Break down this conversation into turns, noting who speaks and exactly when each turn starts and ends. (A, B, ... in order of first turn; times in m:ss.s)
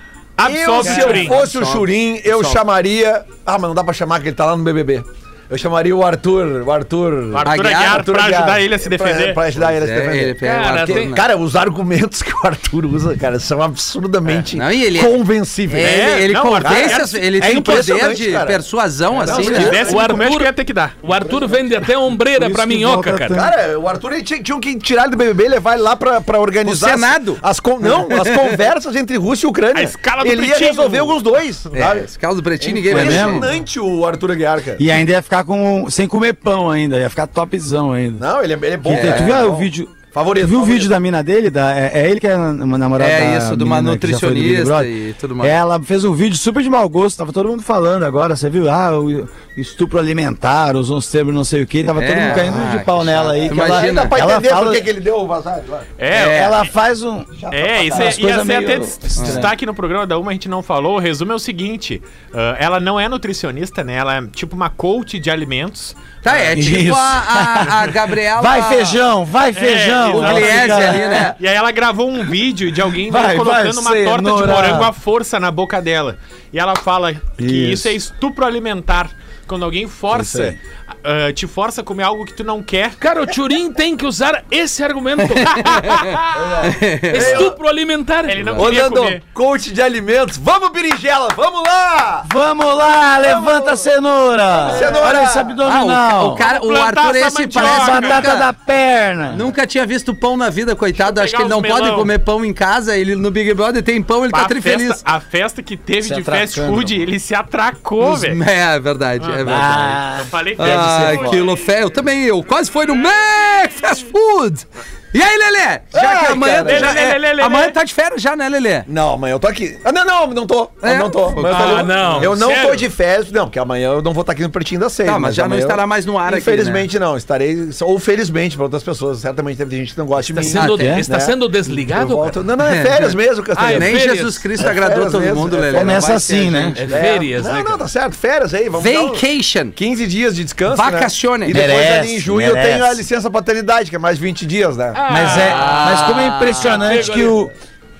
0:00.4-0:01.5 A
0:00.4-0:18.6 B
0:00.8-0:01.3 C
0:00.8-0:02.6 D
0:07.3-0:09.4 A
0:07.4-0:08.1 D
0:09.6-0:11.2 D
0:10.4-0:11.1 C
0:14.5-0:20.0 D
0:15.8-0:17.2 A
0:19.2-0:20.1 B
0:19.2-0:21.0 A
0:19.8-0:23.4 C
0:22.3-0:23.5 E
0:23.3-0:32.1 B
0:26.6-0:27.4 D
0:28.1-0:28.4 D
0:29.7-0:31.2 A
0:31.7-0:33.5 D
0:32.6-0:34.9 B
0:32.9-0:33.5 E
0:34.8-0:38.2 E
0:38.2-0:40.9 B
0:38.8-0:54.8 E
0:38.9-0:39.4 D
0:43.0-0:45.6 D
0:52.0-0:54.1 D
0:53.4-0:55.9 B
0:56.0-0:56.5 A
0:56.1-0:56.6 D
0:56.1-0:59.5 E
0:57.4-0:58.2 B
0:57.5-1:06.5 A
0:59.2-0:59.5 D
1:06.2-1:09.0 D
1:06.5-1:11.3 E
1:09.5-1:23.0 A
1:10.1-1:11.4 D
1:13.0-1:14.9 E
1:17.4-1:17.9 E
1:20.1-1:20.6 E
1:23.0-1:26.4 C
1:25.3-1:27.5 D
1:26.3-1:27.6 B
1:27.1-1:28.7 C
1:28.2-1:29.2 A
1:28.6-1:32.3 B
1:32.2-1:36.4 E
1:33.0-1:33.8 B
1:34.6-1:35.6 B
1:35.6-1:38.5 D
1:36.3-1:38.3 A
1:37.5-1:39.5 E
1:39.3-1:45.0 D
1:40.9-1:42.1 A
1:44.3-1:48.4 A
1:46.0-1:47.0 E
1:48.0-1:50.0 D
1:49.2-1:51.5 A
1:49.4-1:51.4 E
1:50.6-1:58.9 D
1:55.9-1:57.0 B
1:56.6-1:57.8 A
1:58.9-2:14.0 B
2:00.8-2:02.4 D
2:01.4-2:02.8 C
2:05.0-2:06.9 D
2:10.3-2:12.4 C
2:10.5-2:11.0 D
2:10.6-2:11.0 E
2:12.6-2:16.8 D
2:13.5-2:14.4 C
2:14.6-2:16.1 B
2:15.7-2:16.8 E
2:16.8-2:17.8 C
2:16.9-2:19.2 B
2:18.8-2:19.7 D
2:19.8-2:25.0 B
2:20.7-2:21.6 D
2:21.5-2:23.0 E
2:24.9-2:27.4 C
2:25.1-2:27.5 E
2:25.2-2:27.0 D